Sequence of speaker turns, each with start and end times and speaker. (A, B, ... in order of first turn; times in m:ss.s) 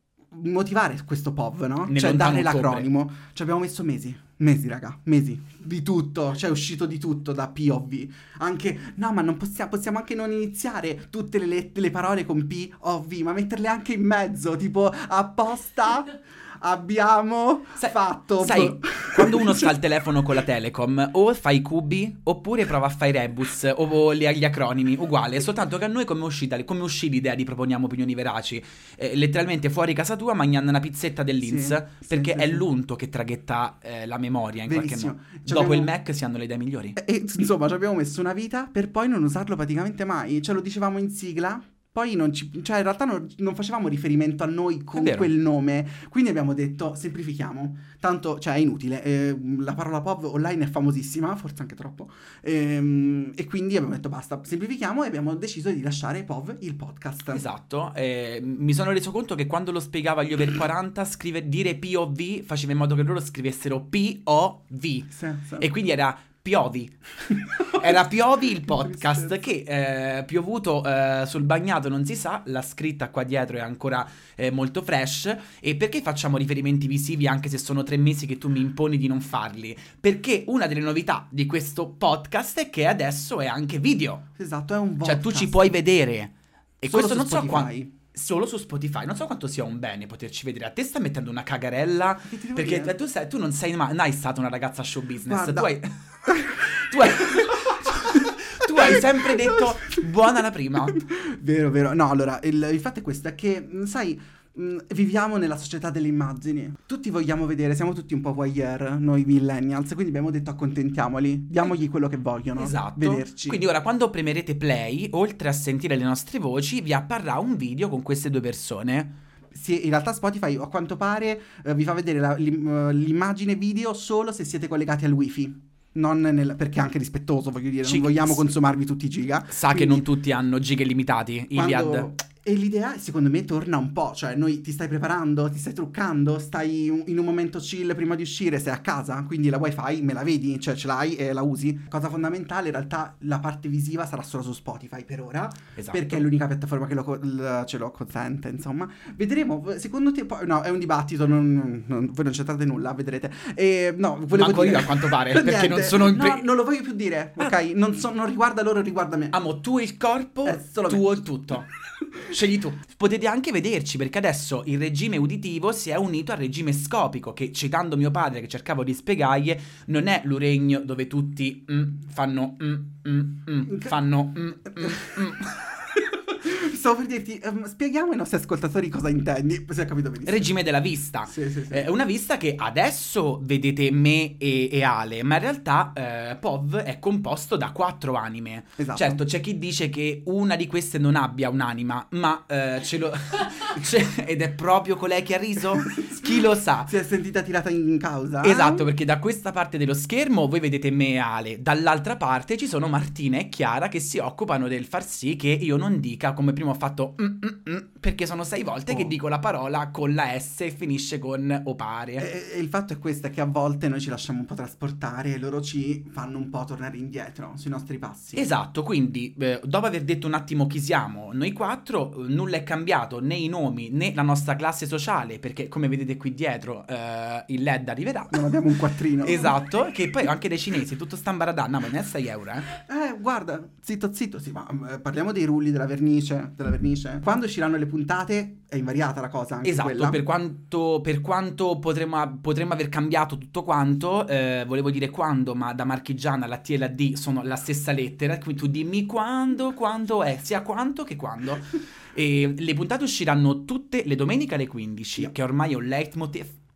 0:00.3-0:19.7 A
0:01.9-0:02.9 B
0:17.8-0:37.0 B
0:31.4-0:32.7 A
0:34.6-0:35.9 A
0:37.0-0:57.4 A
0:45.0-0:45.3 B
0:57.3-1:07.0 B
1:05.1-1:05.7 A
1:07.5-1:24.2 B
1:08.6-1:09.5 A
1:24.4-1:25.7 A
1:25.0-1:41.0 B
1:26.9-1:27.9 A
1:32.2-1:32.9 A
1:35.2-1:36.4 A
1:37.1-1:37.4 A
1:38.8-1:39.6 A
1:40.9-1:53.6 A
1:52.6-1:59.1 B
1:59.5-2:10.0 A
2:07.8-2:08.5 B
2:09.5-2:12.1 B
2:11.5-2:39.4 A
2:25.8-2:26.2 B
2:34.3-2:36.5 B
2:39.3-2:41.7 B
2:40.4-2:41.2 A
2:42.2-2:55.7 B
2:53.6-2:53.9 A
2:54.8-2:55.2 A
2:55.9-3:00.6 A
3:00.2-3:16.9 B
3:01.2-3:01.9 A
3:08.8-3:09.2 A
3:16.9-3:18.9 A
3:18.4-3:32.2 B
3:28.9-3:29.1 A
3:32.2-3:38.5 A
3:38.3-3:48.6 B
3:48.3-3:49.6 A
3:49.2-3:52.7 B
3:52.8-4:00.2 A
3:59.6-4:16.6 B